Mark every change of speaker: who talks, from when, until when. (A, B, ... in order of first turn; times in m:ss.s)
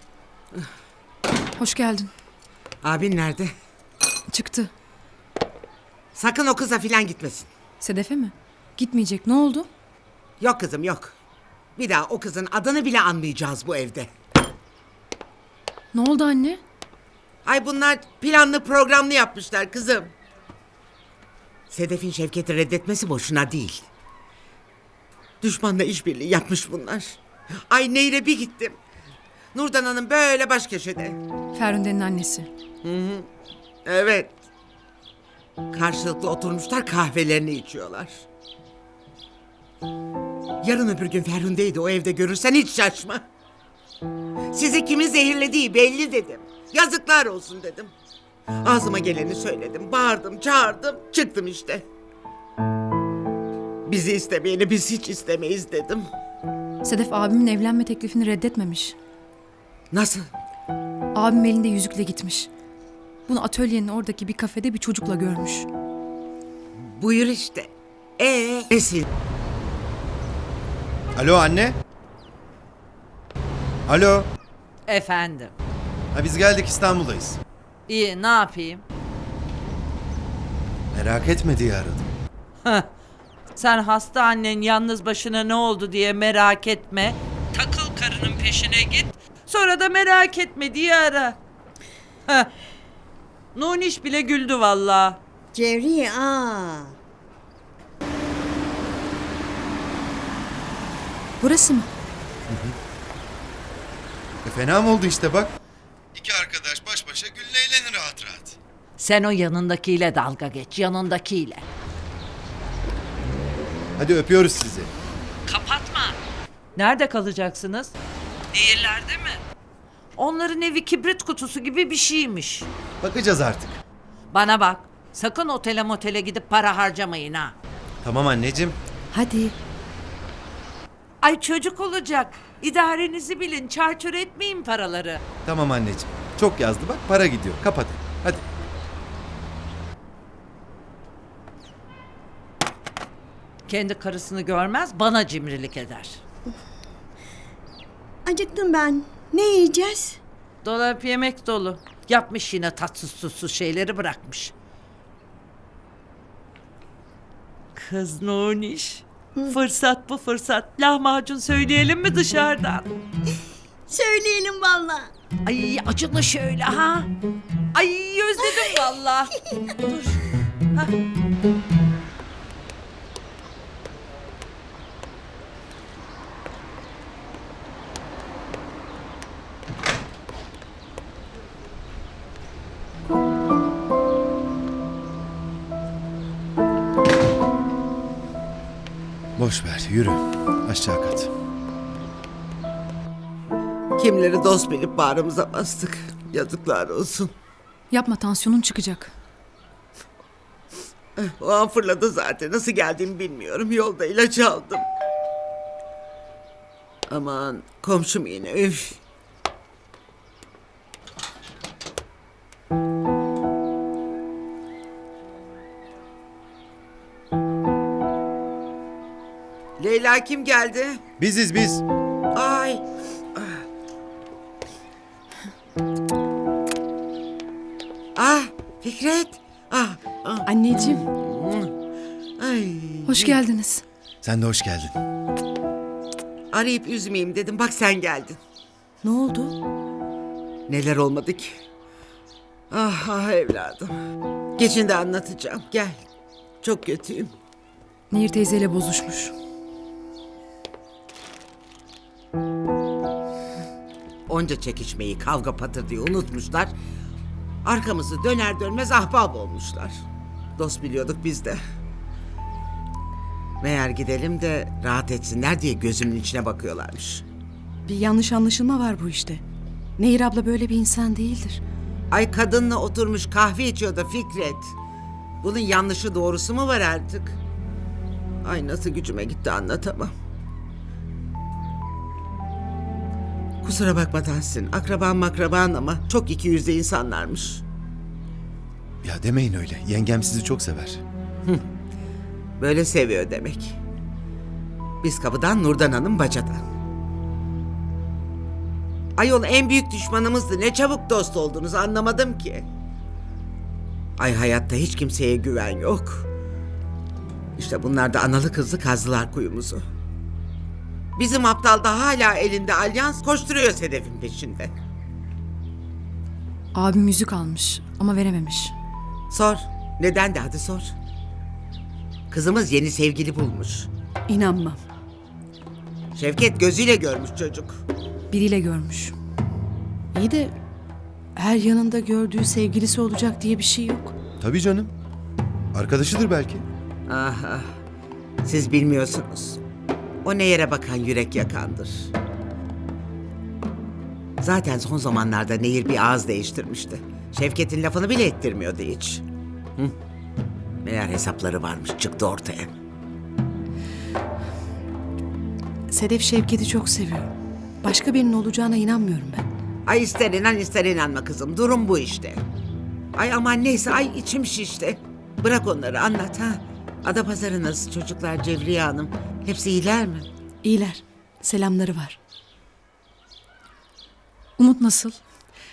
0:01.6-0:02.1 A
0:02.8-0:03.5 B
0:04.3-0:04.7 A
0:06.1-0:07.5 B
0:07.8-0:09.7 A
0:10.4-0:11.1 B
0:11.8-0:14.1 B
0:15.9-0:16.6 A
0:17.4-0:20.1 B
0:21.7-0:23.9 B
0:25.4-0:28.8 B
0:29.5-0:31.2 B
0:31.5-0:32.5 A
0:32.8-0:33.3 B
0:33.8-0:34.3 B
0:35.7-0:38.2 B
0:40.6-0:43.3 B
0:44.5-0:47.9 B
0:48.6-0:51.8 B
0:53.8-0:56.1 B
0:56.8-0:58.9 A
0:59.9-1:00.3 B
1:01.1-1:02.5 A
1:03.3-1:05.7 A
1:06.8-1:09.1 B
1:11.2-1:11.8 C
1:13.9-1:14.3 C
1:14.9-1:15.5 D
1:16.1-1:17.4 C
1:17.9-1:18.8 D
1:20.9-1:22.1 C
1:23.6-1:31.4 D
1:33.5-1:35.2 D
1:35.5-1:36.9 E
1:41.4-1:41.9 A
1:44.4-1:45.5 C
1:46.1-1:48.6 C
1:49.0-1:51.6 D
1:54.0-1:54.9 C
1:55.5-1:56.2 D
1:56.8-1:57.9 D
1:58.5-1:59.4 D
2:00.2-2:02.7 D
2:03.0-2:03.8 C
2:04.3-2:07.5 D
2:08.0-2:08.8 C
2:09.1-2:09.5 F
2:11.2-2:15.2 D
2:15.4-2:18.4 C
2:23.7-2:26.2 D
2:28.2-2:30.2 E
2:30.6-2:34.5 D
2:37.8-2:42.9 D
2:43.9-2:45.1 E
2:45.4-2:47.1 D
2:47.7-2:50.9 D
3:09.4-3:11.3 C
3:14.0-3:17.3 B
3:17.9-3:19.1 A
3:21.2-3:24.9 B
3:27.1-3:29.0 B
3:39.8-3:41.0 B
3:41.2-3:41.8 C
3:42.3-3:43.6 B
3:48.2-3:51.7 B
3:50.5-3:51.0 F
3:52.4-3:53.4 B
3:53.0-3:53.8 A
3:54.2-3:55.0 C
3:56.5-3:58.4 B
3:59.0-3:59.6 F
4:00.7-4:01.6 B
4:02.7-4:04.0 B
4:04.6-4:06.0 B
4:06.6-4:07.3 B
4:08.1-4:09.3 A
4:14.3-4:16.7 B
4:17.6-4:20.0 B
4:20.6-4:21.6 B
4:23.6-4:27.2 B
4:27.8-4:29.4 F
4:30.0-4:31.6 F
4:32.1-4:34.7 B
4:35.4-4:37.4 B
4:38.4-4:40.1 B
4:43.6-4:47.6 B
4:49.0-4:51.0 C
4:52.6-4:53.8 B
4:55.0-4:56.6 B
4:59.2-5:02.7 B
5:04.2-5:06.3 B
5:07.6-5:09.8 B
5:11.2-5:14.7 B
5:16.7-5:18.7 A
5:19.3-5:20.9 B
5:22.3-5:23.9 B
5:24.3-5:24.8 F
5:26.1-5:27.8 B
5:28.3-5:29.1 A
5:30.1-5:30.5 F
5:31.4-5:34.1 F
5:34.4-5:34.9 C
5:35.7-5:36.6 C
5:37.1-5:37.7 B
5:38.4-5:39.6 B
5:40.2-5:42.1 B
5:44.4-5:49.2 B
5:50.8-5:52.7 B
5:55.9-5:57.3 F
5:57.8-5:59.5 F
5:59.8-6:02.4 B
6:03.1-6:10.3 B
6:10.6-6:12.2 F
6:14.6-6:15.2 A